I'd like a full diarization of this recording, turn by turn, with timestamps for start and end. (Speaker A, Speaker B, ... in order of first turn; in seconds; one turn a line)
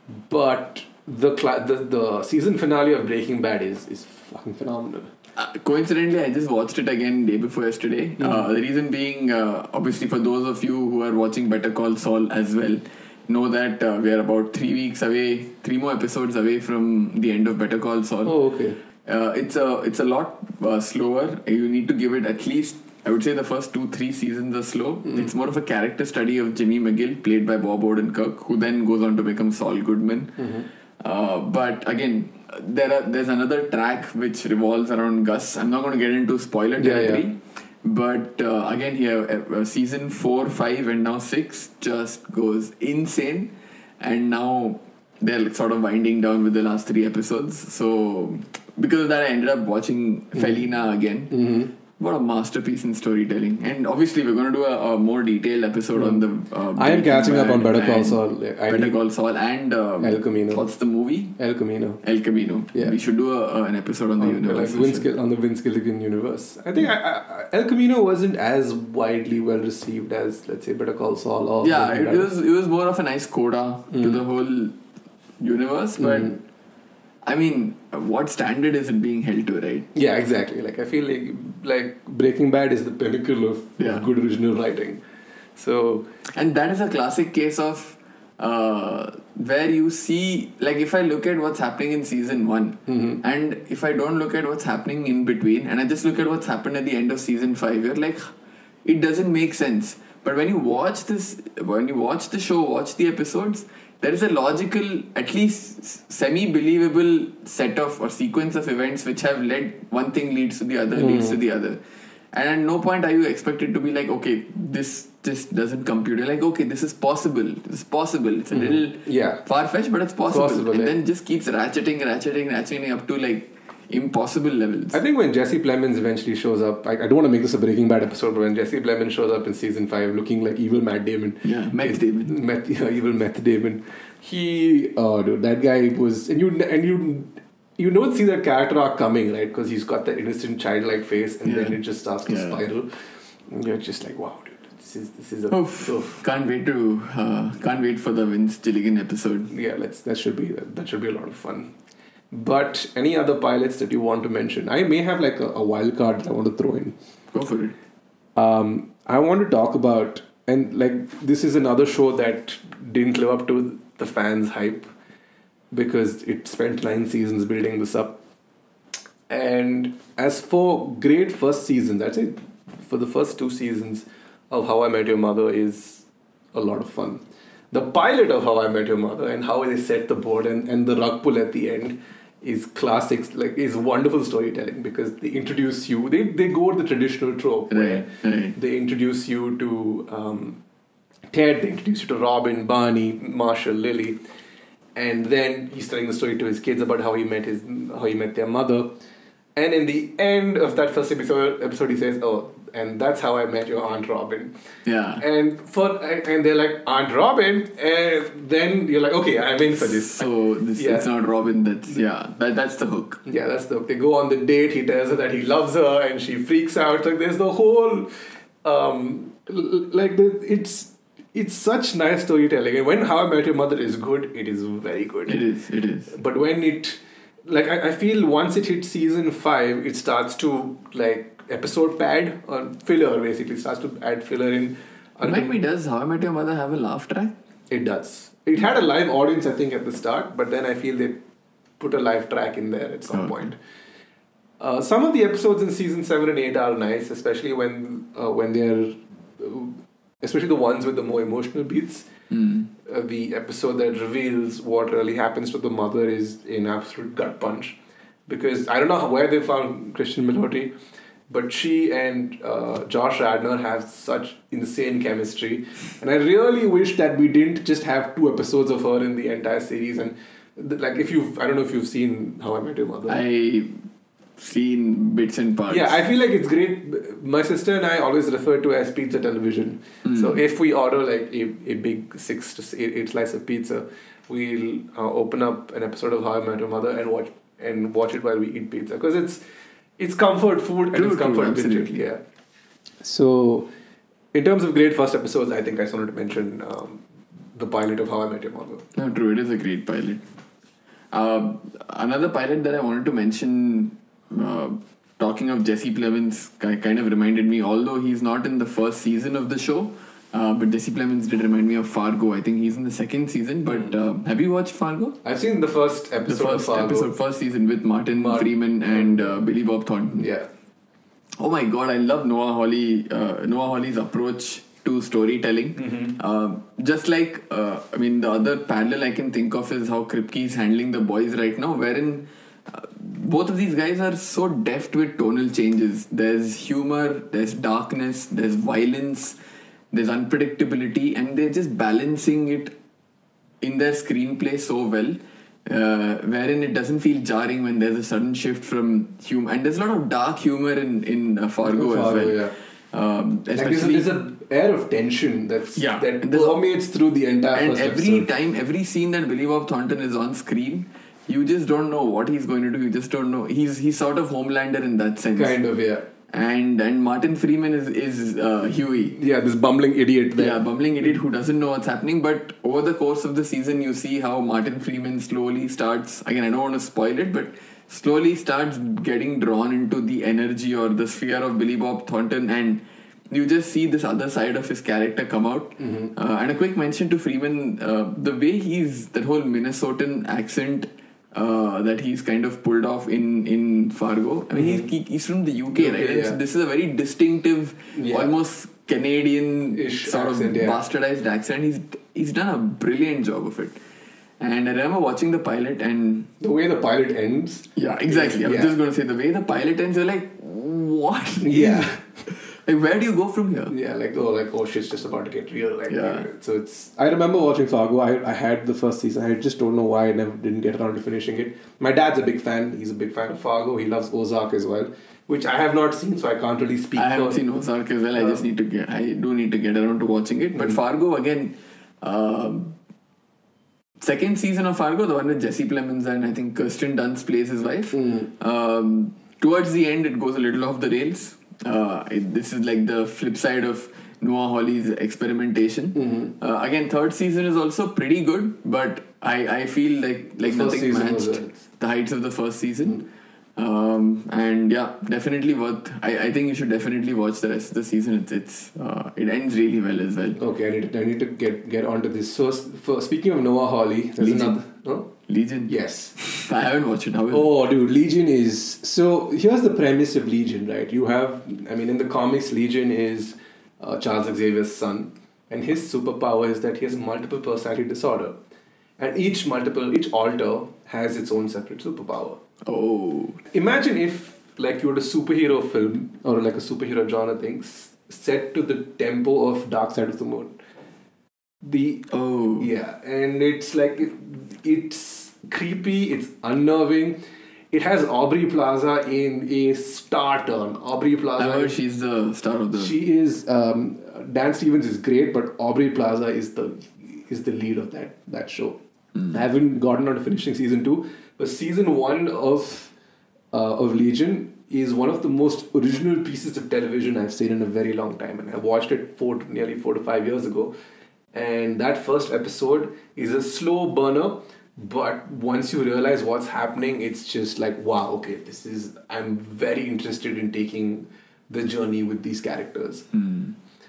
Speaker A: 0.3-5.1
Speaker B: 5.4-18.4
Speaker A: 8.2-8.5
Speaker A: 18.2-18.8
Speaker B: 19.1-51.4
Speaker A: 30.4-30.7
Speaker A: 36.8-37.2
Speaker A: 51.3-51.7
Speaker B: 51.9-61.4
Speaker A: 56.0-56.2
Speaker A: 56.8-59.0
Speaker A: 60.0-60.7
Speaker A: 61.4-62.0
Speaker B: 62.0-65.1
Speaker A: 64.2-72.3
Speaker B: 71.6-74.8
Speaker A: 73.9-74.2
Speaker B: 75.4-76.4
Speaker A: 76.0-76.4
Speaker B: 77.2-79.9
Speaker A: 79.9-85.0
Speaker B: 83.8-84.0
Speaker A: 85.6-86.1
Speaker B: 86.3-98.3
Speaker A: 92.9-93.2
Speaker B: 98.8-111.8
Speaker A: 110.9-111.4
Speaker B: 112.3-125.0
Speaker A: 118.5-119.4
Speaker A: 120.3-121.0
Speaker A: 124.9-142.9
Speaker B: 131.4-132.3
Speaker B: 141.4-142.6
Speaker A: 143.5-146.2
Speaker B: 145.5-149.5
Speaker A: 149.5-151.7
Speaker A: 152.3-156.9
Speaker B: 157.3-157.8
Speaker A: 158.4-164.9
Speaker A: 165.7-168.2
Speaker A: 169.3-190.6
Speaker B: 187.7-188.6
Speaker A: 191.3-194.2
Speaker A: 195.0-198.9
Speaker A: 199.6-204.5
Speaker B: 204.9-205.2
Speaker A: 205.2-211.1
Speaker B: 209.9-213.2
Speaker A: 213.2-218.1
Speaker A: 218.6-225.4
Speaker B: 225.3-226.1
Speaker A: 226.1-235.6
Speaker B: 235.2-237.3
Speaker A: 237.7-241.2
Speaker A: 241.8-243.6
Speaker B: 243.1-243.4
Speaker A: 244.6-252.1
Speaker B: 252.3-252.7
Speaker A: 252.8-257.8
Speaker A: 258.3-260.7
Speaker A: 261.3-273.2
Speaker B: 273.1-273.8
Speaker B: 274.4-276.0
Speaker A: 275.7-289.4
Speaker B: 280.1-280.4
Speaker A: 290.0-292.2
Speaker B: 290.9-292.0
Speaker A: 293.0-293.7
Speaker A: 294.3-298.9
Speaker B: 298.9-300.2
Speaker B: 301.1-315.2
Speaker A: 315.2-317.1
Speaker B: 316.3-320.3
Speaker A: 318.1-319.4
Speaker A: 320.1-320.5
Speaker B: 321.4-339.4
Speaker A: 325.8-326.1
Speaker B: 339.9-342.7
Speaker B: 343.6-354.1
Speaker A: 351.7-352.6
Speaker A: 353.5-358.3
Speaker B: 355.8-356.6
Speaker B: 357.5-365.6
Speaker A: 365.4-366.1
Speaker B: 366.3-369.2
Speaker A: 369.1-370.6
Speaker B: 370.4-403.8
Speaker A: 385.8-386.1
Speaker A: 394.6-394.9
Speaker A: 395.7-396.4
Speaker A: 397.9-398.3
Speaker A: 399.7-400.8
Speaker B: 404.4-406.3
Speaker A: 406.4-408.8
Speaker B: 407.8-413.7
Speaker A: 411.4-412.0
Speaker A: 413.7-427.4
Speaker B: 415.9-416.3
Speaker B: 426.9-432.8
Speaker A: 428.2-428.4
Speaker B: 434.0-460.4
Speaker A: 437.9-438.3
Speaker A: 445.9-446.3
Speaker A: 450.4-451.6
Speaker A: 460.4-465.1
Speaker B: 464.2-464.6
Speaker B: 465.3-467.5
Speaker A: 465.7-466.3
Speaker A: 467.3-478.4
Speaker A: 479.0-482.4
Speaker B: 482.6-483.4
Speaker A: 483.5-490.6
Speaker A: 491.6-501.8
Speaker B: 492.1-492.7
Speaker B: 501.4-503.0
Speaker A: 502.7-512.9
Speaker A: 513.5-520.7
Speaker A: 521.3-533.1
Speaker B: 533.1-533.5